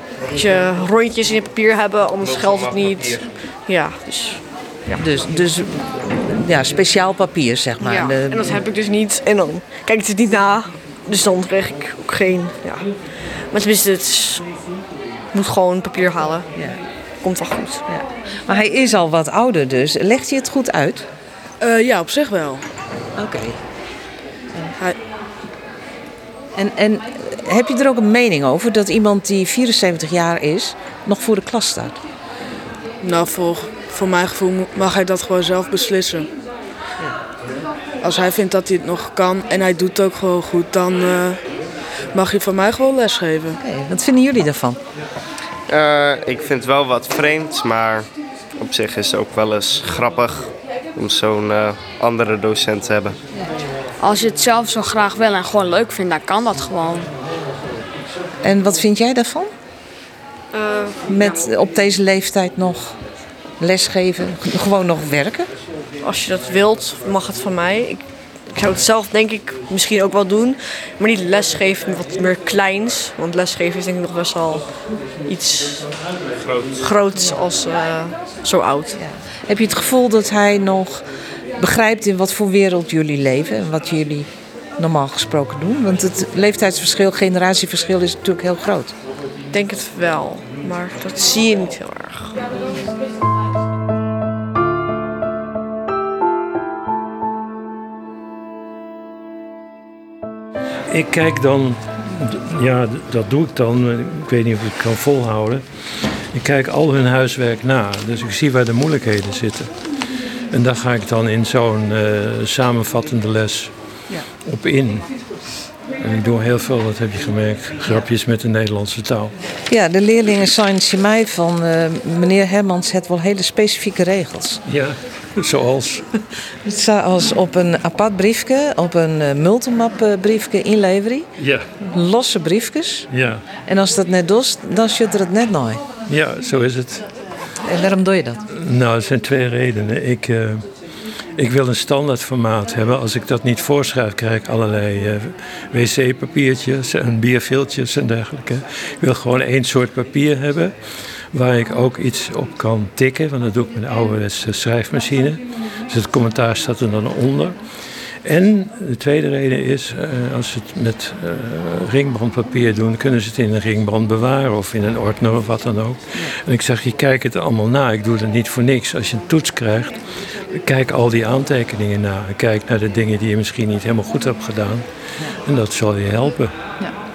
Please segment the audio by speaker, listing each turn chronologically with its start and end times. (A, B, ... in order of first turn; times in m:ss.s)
0:00.3-0:05.0 A
0:04.9-0:08.6 B
0:07.8-0:14.4 A
0:15.3-0:16.5 A
0:16.5-0:16.8 B
0:17.2-0:17.8 A
0:17.9-0:21.0 B
0:21.6-0:22.6 C
0:23.2-0:23.6 B
0:26.5-0:32.0 B
0:33.0-0:36.3 C
0:38.0-0:41.4 C
0:42.1-0:43.6 C
0:43.5-0:44.8 B
0:45.7-0:53.2 D
0:54.0-0:57.1 E
0:58.4-0:59.5 B
1:00.5-1:01.2 A
1:01.0-1:02.9 B
1:03.6-1:05.5 B
1:06.0-1:14.7 A
1:15.2-1:16.0 A
1:16.6-1:19.0 A
1:19.0-1:21.0 B
1:21.6-1:28.9 B
1:29.5-1:32.4 A
1:40.9-1:53.7 F
1:54.4-1:55.1 F
1:56.0-1:59.3 F
1:59.7-2:04.6 B
2:04.7-2:06.2 F
2:06.6-2:13.1 B
2:11.4-2:11.7 F
2:13.1-2:13.4 F
2:13.6-2:15.8 B
2:16.1-2:17.1 F
2:17.6-2:18.4 B
2:18.5-2:20.7 F
2:21.3-2:30.8 F
2:31.3-2:37.6 F
2:38.2-2:54.8 F
2:55.4-2:56.5 F